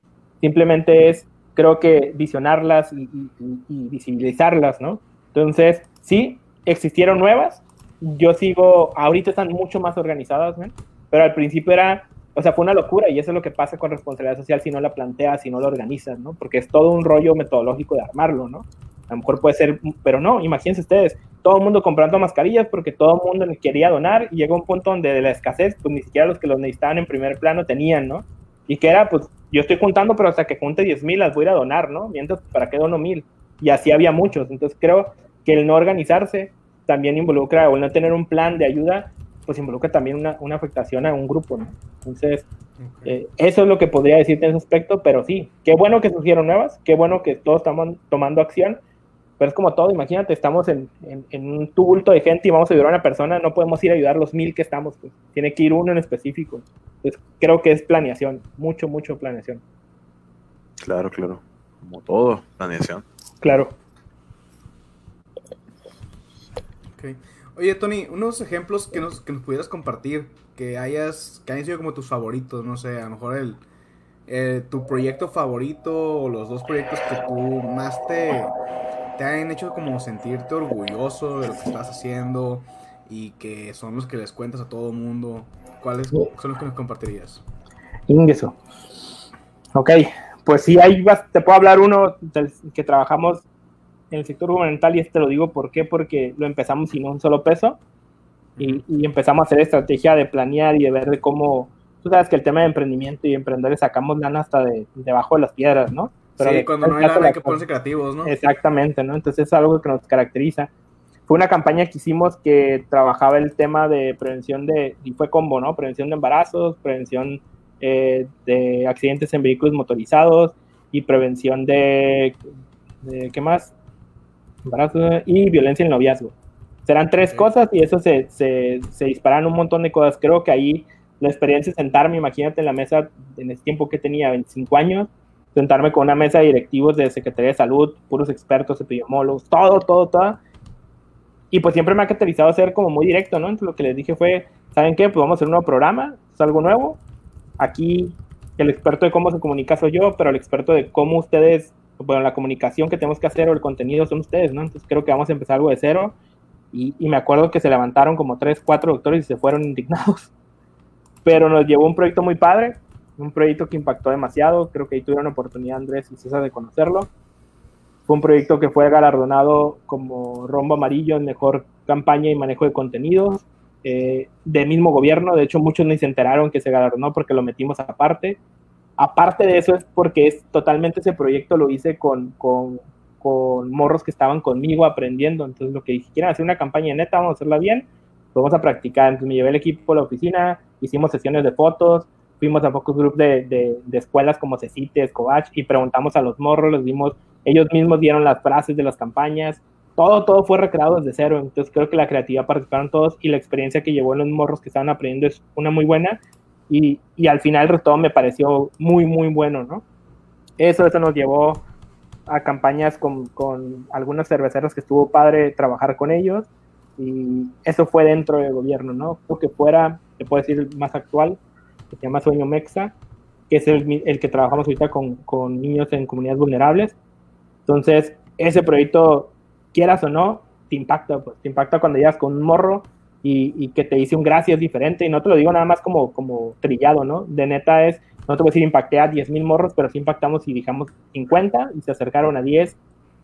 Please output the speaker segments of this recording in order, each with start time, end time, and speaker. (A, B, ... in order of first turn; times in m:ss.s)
0:00.4-0:42.4 A
0:42.8-0:43.2 B
0:43.1-0:48.8 A
0:49.4-0:59.6 A
1:00.8-1:03.0 C
1:03.4-1:03.7 A
1:07.0-1:13.6 B
1:14.3-1:18.6 B
1:19.2-1:27.4 B
1:28.1-1:28.6 A
1:29.8-1:33.4 A
1:34.1-1:37.8 A
1:38.6-1:38.8 B
1:38.6-1:47.6 A
1:46.4-1:48.4 B
1:48.2-1:50.7 A
1:51.3-2:02.4 A
2:03.0-2:03.7 A
2:04.6-2:06.3 A
2:06.9-2:20.4 A
2:07.2-2:07.5 B
2:21.5-2:27.0 A
2:27.6-2:36.2 A
2:36.7-2:40.3 A
2:41.2-2:47.1 A
2:48.1-2:58.4 A
2:59.0-3:29.8 A
3:30.6-3:31.6 A
3:32.3-3:41.4 A
3:41.9-3:42.9 A
3:43.5-3:47.0 A
3:47.7-4:02.8 A